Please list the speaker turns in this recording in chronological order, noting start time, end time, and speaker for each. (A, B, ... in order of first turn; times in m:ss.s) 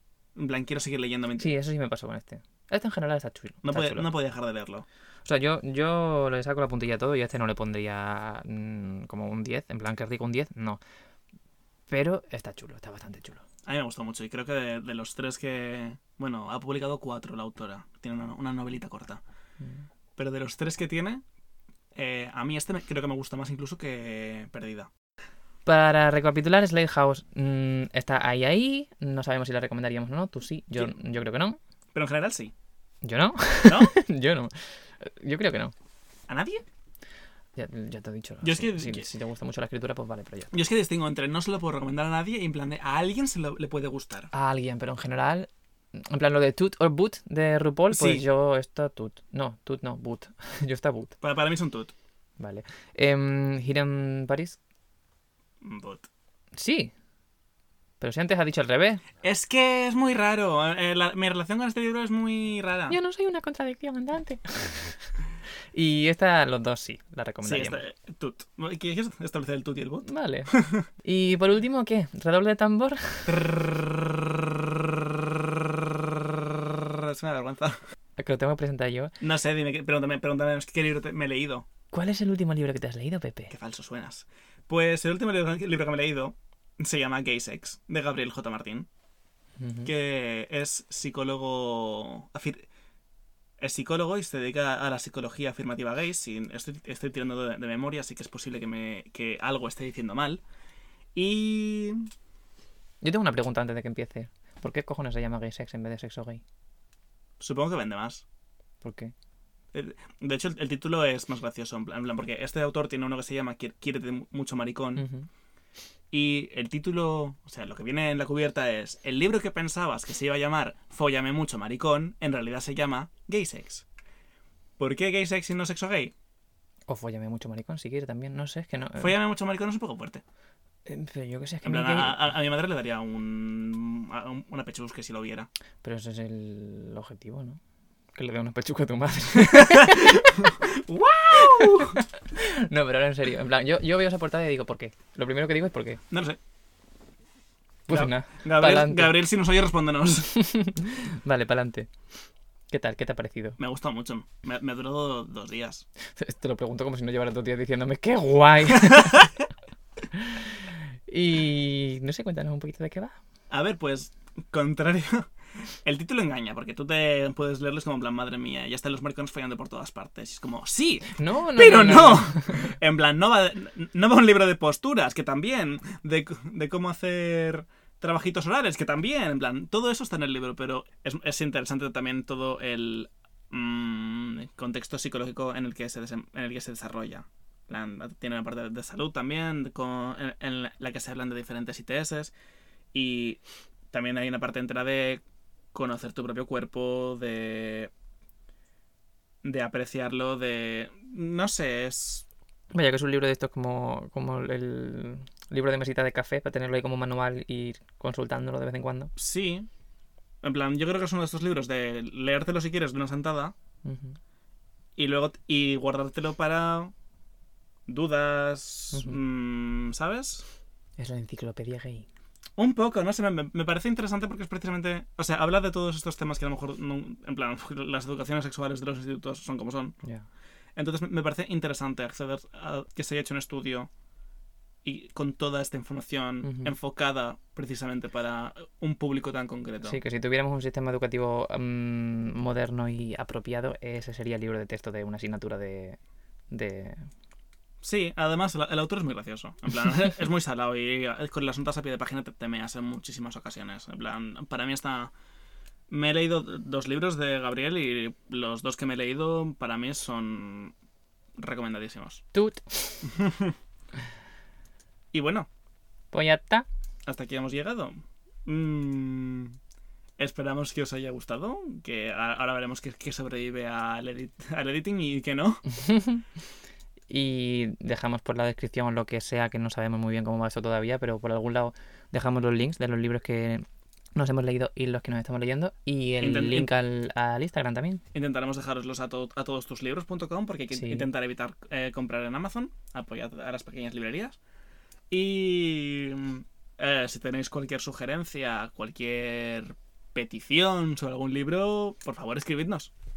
0:00.4-0:01.6 A
0:01.4-0:04.1 B
0:03.6-0:04.9 A
0:05.2-0:10.8 B
0:11.9-0:13.4 B
0:13.7-0:19.2 A
0:20.2-0:21.2 A
0:22.0-0:24.9 A
0:25.7-0:31.6 B
0:31.9-0:32.5 A
0:33.0-0:35.7 B
0:33.6-0:34.0 A
0:36.3-0:36.6 A
0:37.6-0:40.6 B
0:38.4-0:39.1 A
0:40.5-0:44.3 A
0:44.3-0:51.2 B
0:47.9-0:48.2 A
0:51.2-0:51.9 A
0:52.4-0:54.6 B
0:55.6-0:56.1 A
0:56.6-0:56.9 B
0:58.0-0:59.0 B
0:59.2-1:03.0 A
1:02.9-1:05.0 B
1:05.7-1:07.8 B
1:07.4-1:10.9 A
1:10.0-1:13.4 B
1:13.3-1:17.8 A
1:18.2-1:19.2 B
1:19.2-1:21.7 A
1:21.9-1:23.5 B
1:23.5-1:28.9 A
1:29.6-1:29.9 B
1:29.8-1:32.6 A
1:33.6-1:40.4 A
1:41.2-1:42.1 A
1:43.0-1:46.4 B
1:47.4-1:48.2 A
1:48.8-1:49.1 B
1:49.7-1:55.1 A
1:55.0-1:55.3 B
1:56.1-2:03.9 A
2:04.8-2:06.1 A
2:06.9-2:09.2 B
2:09.0-2:10.2 A
2:10.9-2:12.2 B
2:11.6-2:15.5 A
2:15.8-2:17.6 B
2:18.2-2:20.4 B
2:19.7-2:22.0 A
2:21.4-2:26.0 B
2:26.1-2:26.4 A
2:27.9-2:29.2 B
2:27.9-2:30.3 A
2:30.2-2:31.9 B
2:32.7-2:33.6 B
2:33.6-2:35.8 A
2:36.2-2:39.3 B
2:40.1-2:43.2 B
2:43.5-2:45.3 A
2:45.8-3:12.3 A
2:51.2-2:52.7 B
3:12.9-3:13.4 A
3:13.9-3:15.2 A
3:15.7-3:17.9 A
3:19.4-3:22.3 A
3:22.7-3:29.1 B
3:29.2-3:29.7 A
3:30.4-3:33.5 A
3:33.8-3:34.2 B
3:35.0-3:36.9 A
3:37.9-3:40.5 A
3:38.9-3:39.2 B
3:41.0-3:42.1 B
3:42.6-3:50.0 A
3:50.8-3:53.9 A
3:54.8-4:00.0 A
3:56.4-3:56.7 B
3:59.8-4:06.0 B
4:06.5-4:07.1 B
4:07.8-4:15.1 A
4:15.9-4:20.7 A
4:21.4-4:22.2 A
4:22.3-4:23.1 B
4:23.1-4:23.6 A
4:25.1-4:25.5 A
4:26.1-4:26.7 B
4:27.1-4:29.6 A
4:30.2-4:35.6 A
4:35.7-4:36.3 B
4:37.1-4:43.6 B
4:44.2-4:48.0 B
4:46.2-4:46.7 A
4:48.1-4:54.4 A
4:50.7-4:51.1 B
4:55.1-5:02.9 A